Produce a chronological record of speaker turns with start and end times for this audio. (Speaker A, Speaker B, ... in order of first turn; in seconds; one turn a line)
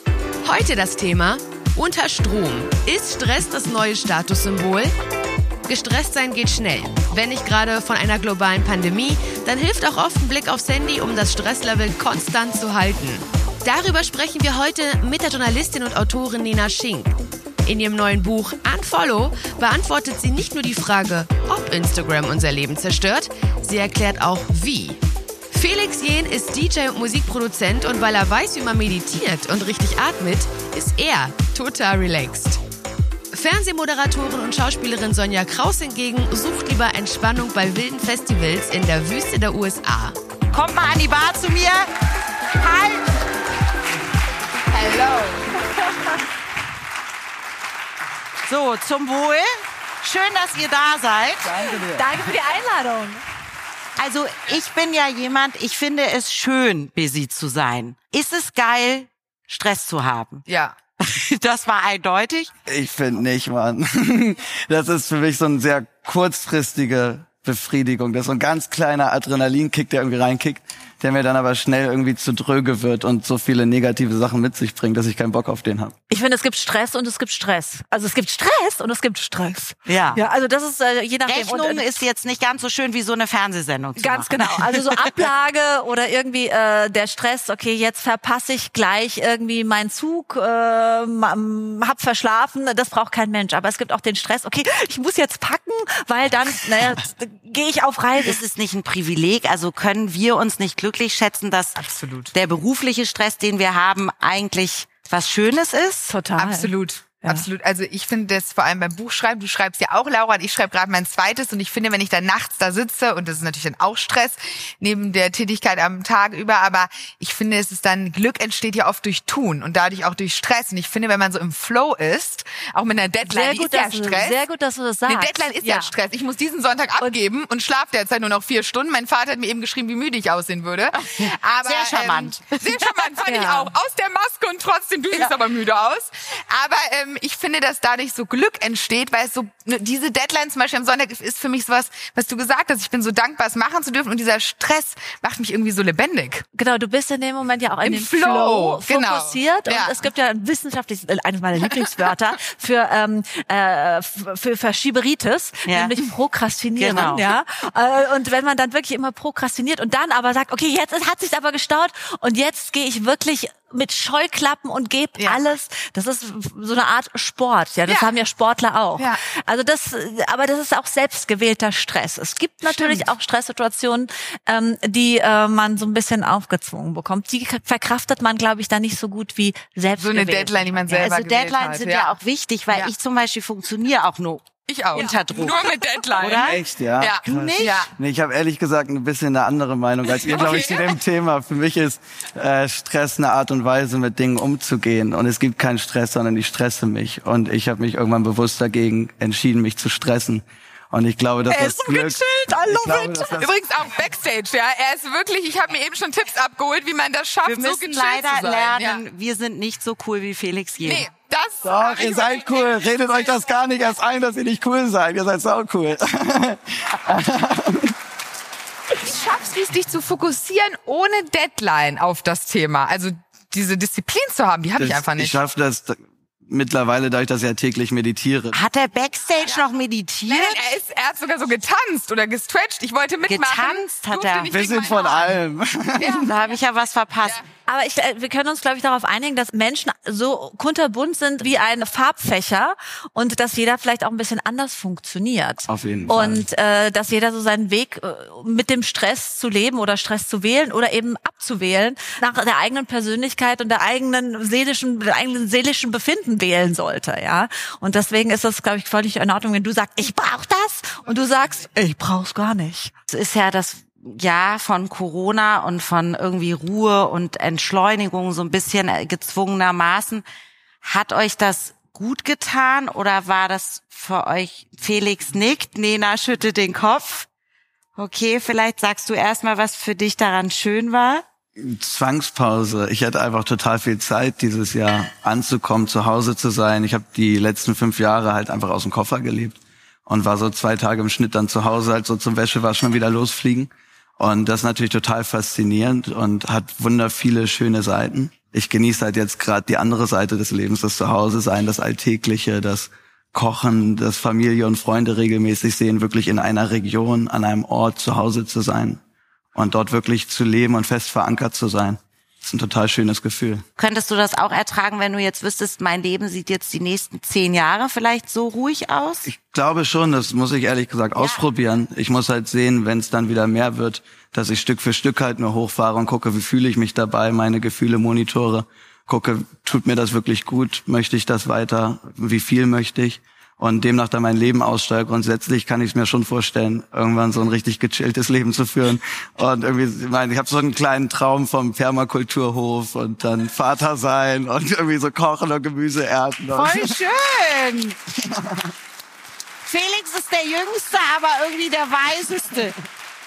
Speaker A: 0.4-4.9
Speaker A: 5.7-25.0
Speaker A: 25.5-32.6
Speaker A: 33.3-40.2
Speaker B: 40.5-41.9
Speaker B: 42.5-43.1
Speaker C: 44.7-45.5
Speaker B: 48.5-49.5
Speaker B: 50.0-51.5
Speaker D: 51.6-53.2
Speaker E: 51.6-52.0
Speaker B: 54.0-60.5
Speaker C: 60.5-60.8
Speaker B: 61.0-62.5
Speaker E: 62.7-75.9
Speaker D: 76.1-82.0
Speaker B: 79.9-80.2
Speaker B: 81.3-85.1
Speaker D: 84.0-98.4
Speaker B: 98.2-101.8
Speaker C: 101.8-102.3
Speaker B: 102.3-106.1
Speaker D: 106.1-106.7
Speaker C: 106.4-124.4
Speaker D: 123.2-125.9
Speaker C: 125.1-146.4
Speaker B: 131.0-132.9
Speaker D: 133.3-133.7
Speaker D: 146.6-181.0
Speaker C: 147.8-150.0
Speaker B: 155.7-155.9
Speaker B: 156.8-157.3
Speaker C: 167.9-168.1
Speaker C: 172.6-173.1
Speaker C: 180.0-182.2
Speaker B: 180.9-185.7
Speaker C: 184.7-187.9
Speaker B: 186.2-186.6
Speaker E: 186.4-203.6
Speaker B: 187.2-187.9
Speaker C: 190.1-191.0
Speaker D: 201.5-203.3
Speaker C: 203.4-209.0
Speaker B: 207.4-211.1
Speaker C: 210.8-213.4
Speaker E: 211.6-217.9
Speaker C: 219.0-225.4
Speaker E: 224.8-228.6
Speaker B: 228.5-230.7
Speaker C: 230.3-235.4
Speaker B: 233.3-234.5
Speaker E: 234.5-236.3
Speaker B: 236.0-237.4
Speaker D: 237.7-262.9
Speaker E: 245.7-246.5
Speaker B: 263.1-270.2
Speaker B: 270.8-277.3
Speaker B: 278.0-281.2
Speaker E: 281.6-309.0
Speaker E: 309.6-313.6
Speaker B: 313.8-319.3
Speaker E: 319.2-346.9
Speaker B: 321.2-321.4
Speaker B: 346.5-348.0
Speaker E: 348.3-348.7
Speaker B: 349.6-352.8